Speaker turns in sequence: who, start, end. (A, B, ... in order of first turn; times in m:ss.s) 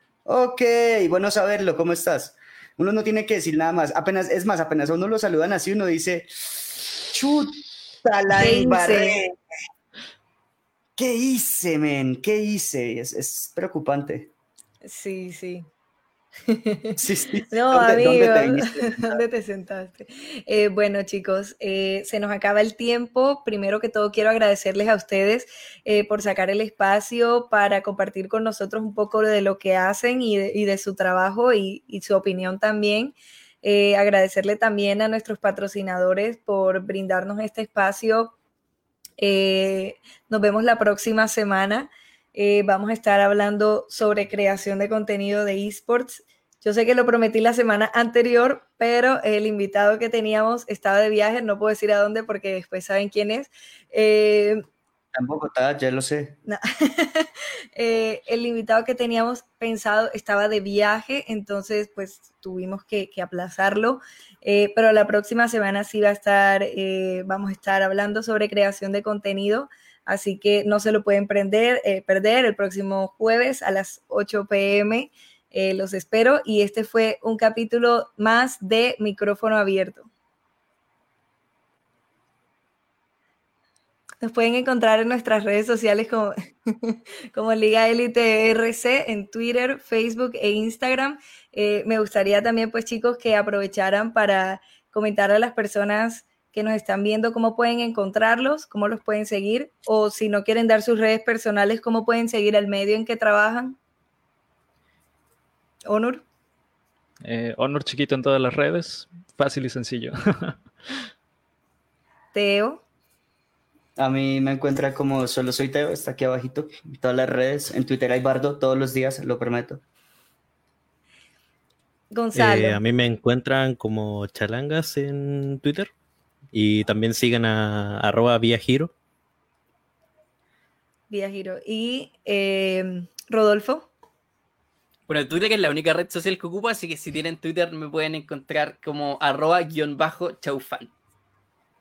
0:00.2-0:09.3 A
0:08.3-0:09.2 B
0:11.0-0:14.3 A
0:14.8-0:15.7 B
0:16.5-0:17.0 B
0:17.0-0:19.2 A
0:17.5-0:38.3 B
0:39.2-0:54.6 B
0:55.1-0:56.4 A
0:56.4-1:20.1 B
1:24.2-1:43.8 B
1:45.9-1:46.2 B
1:47.2-1:50.6 C
1:52.3-1:52.8 B
1:54.0-1:59.8 A
2:02.1-2:02.8 B
2:02.3-2:05.9 D
2:06.5-2:08.9 D
2:11.1-2:13.9 B
2:15.1-2:20.9 E